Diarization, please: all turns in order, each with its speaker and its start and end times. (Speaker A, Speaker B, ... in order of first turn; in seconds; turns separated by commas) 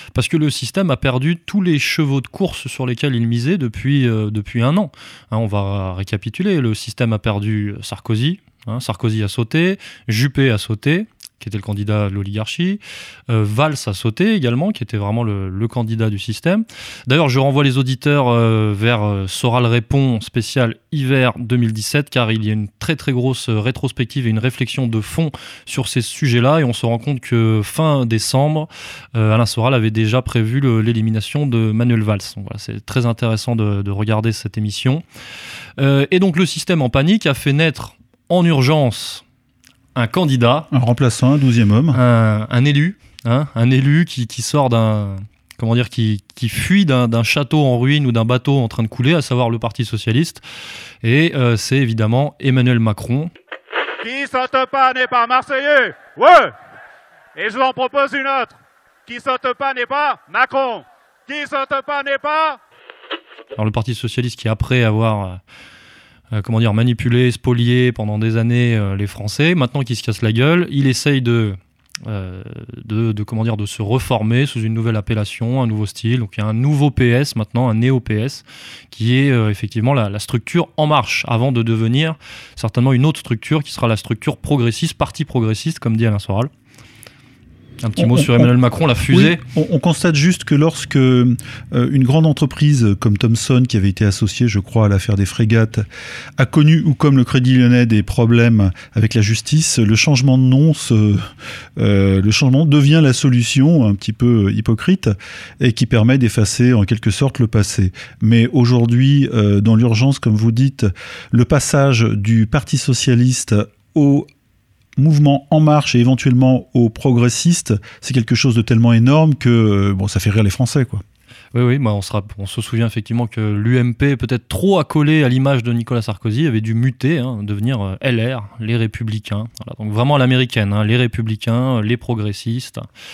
Speaker A: 0.1-35.0, Speaker A: 35.8-39.2, Speaker A: 39.9-40.7, Speaker B: 40.7-42.0, Speaker A: 41.9-50.4, Speaker A: 51.0-53.3, Speaker C: 54.0-56.5, Speaker C: 57.4-62.6, Speaker A: 63.6-65.4, Speaker A: 66.3-86.5, Speaker A: 87.8-89.4, Speaker B: 88.0-88.5, Speaker B: 89.1-95.8, Speaker B: 96.4-114.3, Speaker B: 115.0-121.0, Speaker A: 121.5-132.9